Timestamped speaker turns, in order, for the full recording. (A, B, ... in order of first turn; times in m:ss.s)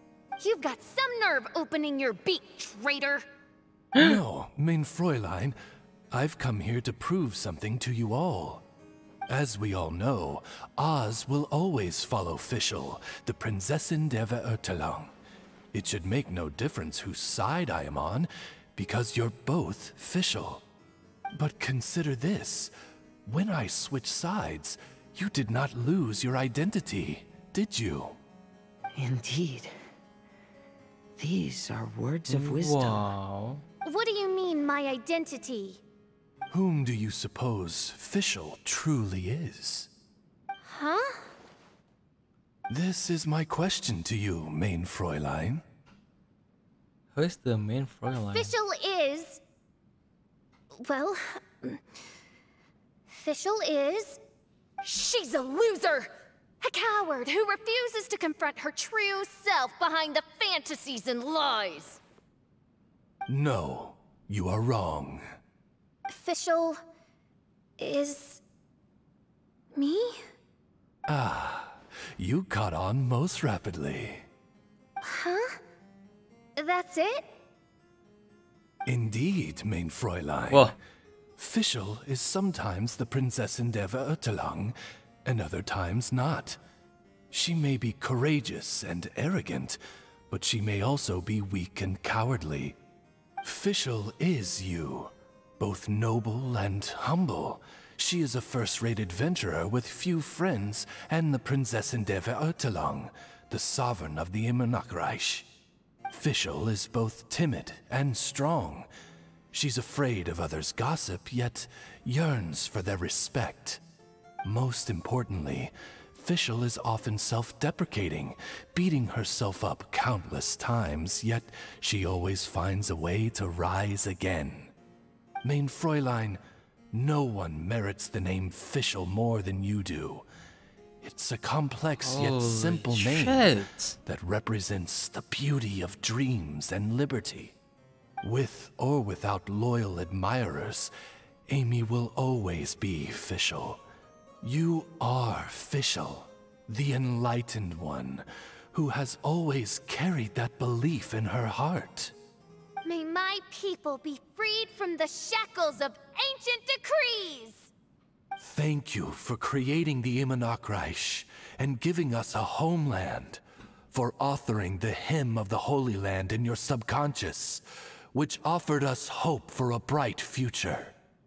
0:00.4-0:03.2 A
0:04.0-0:05.6 B
0:06.1-0:08.6 B
0:09.3-0:15.1 B
0:15.7-0:20.6 B
0:21.3-0:22.7 B
0:23.3-0:28.2 B
0:29.0-0:29.8 C
0:31.2-0:33.1 C
0:32.3-0:33.6 D
0:33.8-0:35.8 A
0:36.5-0:39.9 B
0:40.6-0:41.3 A
0:42.7-0:45.6 B
0:47.2-0:48.5 D
0:48.3-0:49.4 A
0:50.8-0:51.8 A
0:53.1-0:54.2 A
0:54.8-0:56.1 A
0:56.6-1:02.0 A
1:03.3-1:05.2 B
1:06.1-1:06.8 A
1:07.8-1:08.4 A
1:09.7-1:10.2 A
1:11.1-1:14.2 B
1:15.0-1:15.6 A
1:16.6-1:17.3 A
1:18.9-1:20.8 B
1:21.4-1:26.6 B
1:27.3-1:29.8 B
1:30.3-1:32.8 B
1:33.4-1:45.5 B
1:46.1-1:48.9 B
1:49.5-1:53.8 B
1:54.4-2:04.7 B
2:05.4-2:06.4 B
2:06.9-2:10.2 B
2:11.0-2:13.5 B
2:12.0-2:14.0 D
2:14.0-2:17.5 B
2:18.2-2:20.9 B
2:21.5-2:23.8 B
2:24.4-2:32.1 B
2:32.8-2:37.7 A
2:38.4-2:43.4 B
2:43.9-2:47.6 B
2:48.1-2:50.9 B